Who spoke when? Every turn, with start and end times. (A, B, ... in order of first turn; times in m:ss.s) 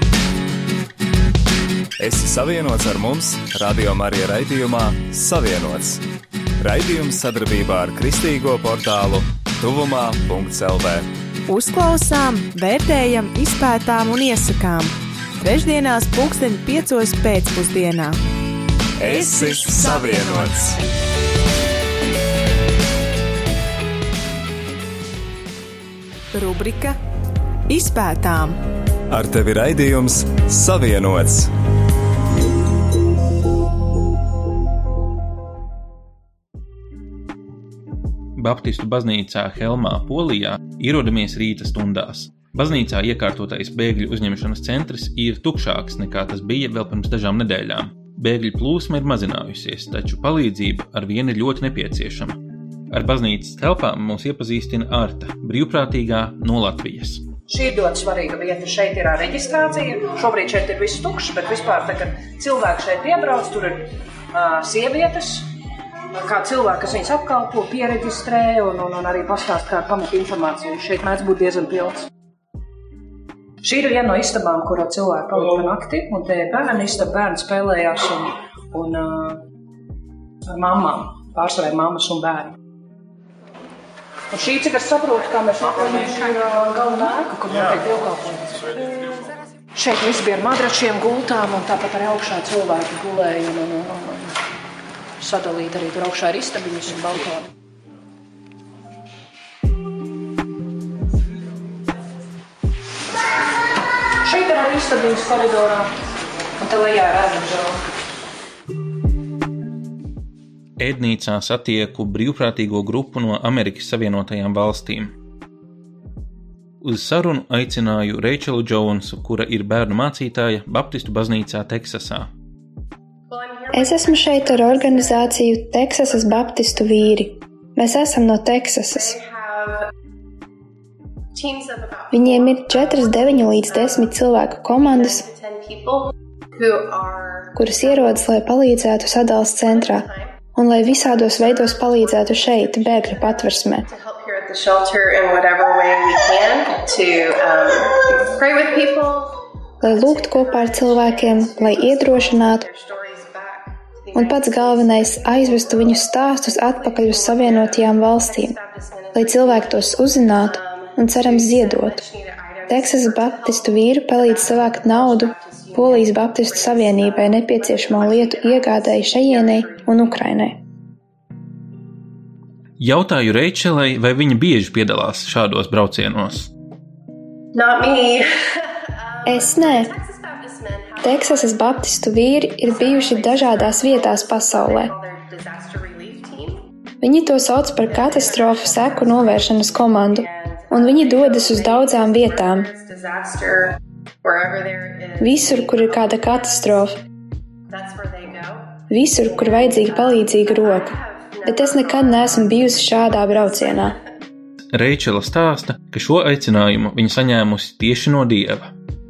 0:02.0-0:06.0 A
0:06.6-0:11.1 A
0:11.5-0:18.2 B
0:19.0-0:20.8 A
0:19.1-0:20.2 B
0:26.3-0:27.0 B
0:27.7-0:28.6 B
0:29.1-0:31.5 A
0:38.4-0:52.4 C
0:52.9-0:57.2 C
0:57.5-1:05.5 D
1:06.2-1:12.1 D
1:13.6-1:19.4 D
1:20.5-1:22.6 D
1:24.3-1:29.2 D
1:29.8-1:34.3 D
1:35.2-1:37.5 D
1:44.2-1:45.9 D
1:46.6-1:47.8 D
1:50.8-1:55.1 C
1:56.8-2:02.3 C
2:03.3-2:07.2 E
2:03.7-2:09.2 F
2:08.9-2:09.9 E
2:11.3-2:14.2 E
2:12.1-2:15.2 F
2:14.7-2:18.3 E
2:17.6-2:23.9 F
2:19.6-2:50.2 E
2:29.8-2:32.7 F
2:34.1-2:38.6 F
2:39.1-2:42.0 F
2:42.7-2:50.6 F
2:52.8-2:56.5 C
2:57.5-3:01.9 E
2:59.3-2:59.9 F
3:01.0-3:04.9 F
3:02.6-3:06.7 E
3:07.0-3:12.7 F
3:07.8-3:16.9 E
3:15.2-3:17.0 F
3:17.7-3:24.0 E
3:18.9-3:21.0 F
3:21.5-3:24.0 F
3:24.7-3:28.7 C